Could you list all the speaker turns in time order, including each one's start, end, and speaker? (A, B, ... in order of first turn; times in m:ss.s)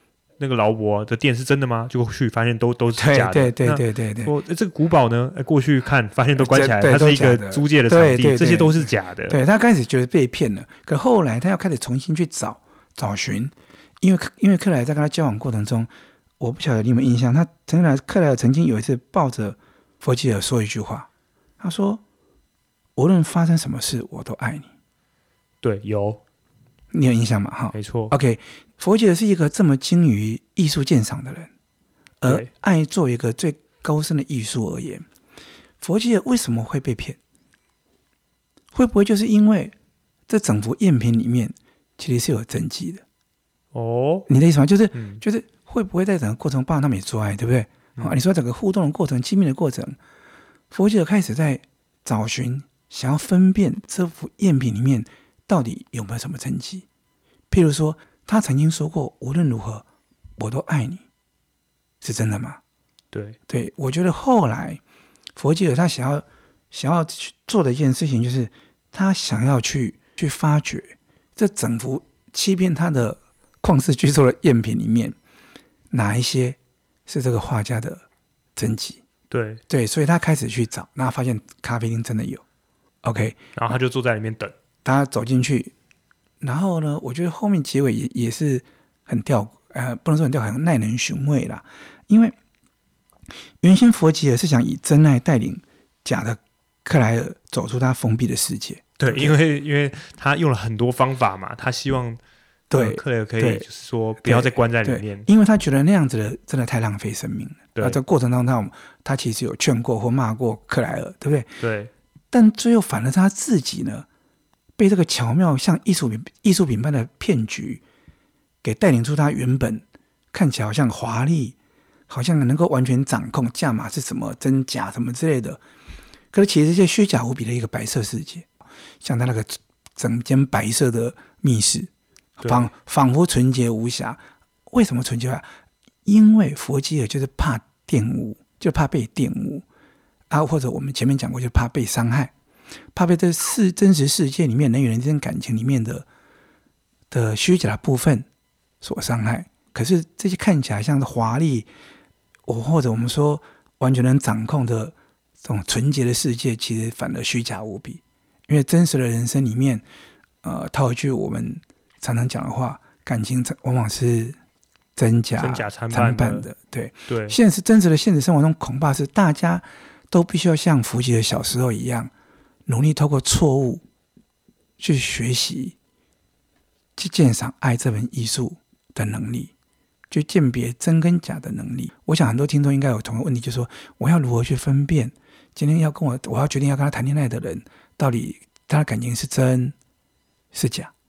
0:00.4-0:09.4 A
0:03.0-0:04.3 B
0:06.4-0:21.1 B
0:21.6-0:22.0 B
0:23.0-0:24.7 B
0:25.6-0:26.2 A
0:26.9-0:31.5 B
0:27.7-0:28.1 A
0:32.2-0:35.0 B
0:35.8-0:37.2 B
0:38.7-0:39.7 B
0:40.3-0:43.0 B
0:43.7-0:44.3 A
0:44.3-0:50.0 B
0:44.9-0:45.2 A
0:50.7-0:56.8 B
0:57.5-0:59.8 B
1:00.4-1:01.0 B
1:02.0-1:02.6 B
1:03.1-1:03.4 A
1:03.5-1:04.8 B
1:05.4-1:15.2 B
1:15.9-1:18.0 B
1:18.6-1:19.0 B
1:19.3-1:19.6 A
1:19.7-1:22.4 B
1:23.0-1:23.4 B
1:23.5-1:24.5 A
1:24.8-1:25.7 B
1:26.4-1:32.3 B
1:33.6-1:39.4 B
1:39.0-1:42.2 A
1:42.7-1:43.6 B
1:42.7-1:45.3 A
1:44.2-1:51.5 B
1:51.6-1:51.9 A
1:52.3-1:54.0 B
1:54.8-1:57.8 B
1:58.6-2:01.6 B
2:02.1-2:05.6 B
2:06.3-2:08.5 B
2:09.0-2:15.5 B
2:12.4-2:12.7 A
2:16.0-2:19.6 B
2:20.3-2:22.3 B
2:22.9-2:26.1 B
2:27.1-2:28.3 B
2:28.8-2:31.7 B
2:32.4-2:39.8 B
2:40.4-2:44.4 B
2:45.0-2:52.1 B
2:45.4-2:46.5 A
2:47.1-2:47.4 A
2:52.6-2:53.8 B
2:54.8-2:55.8 B
2:57.0-2:59.5 B
3:00.1-3:09.7 B
3:10.5-3:10.9 B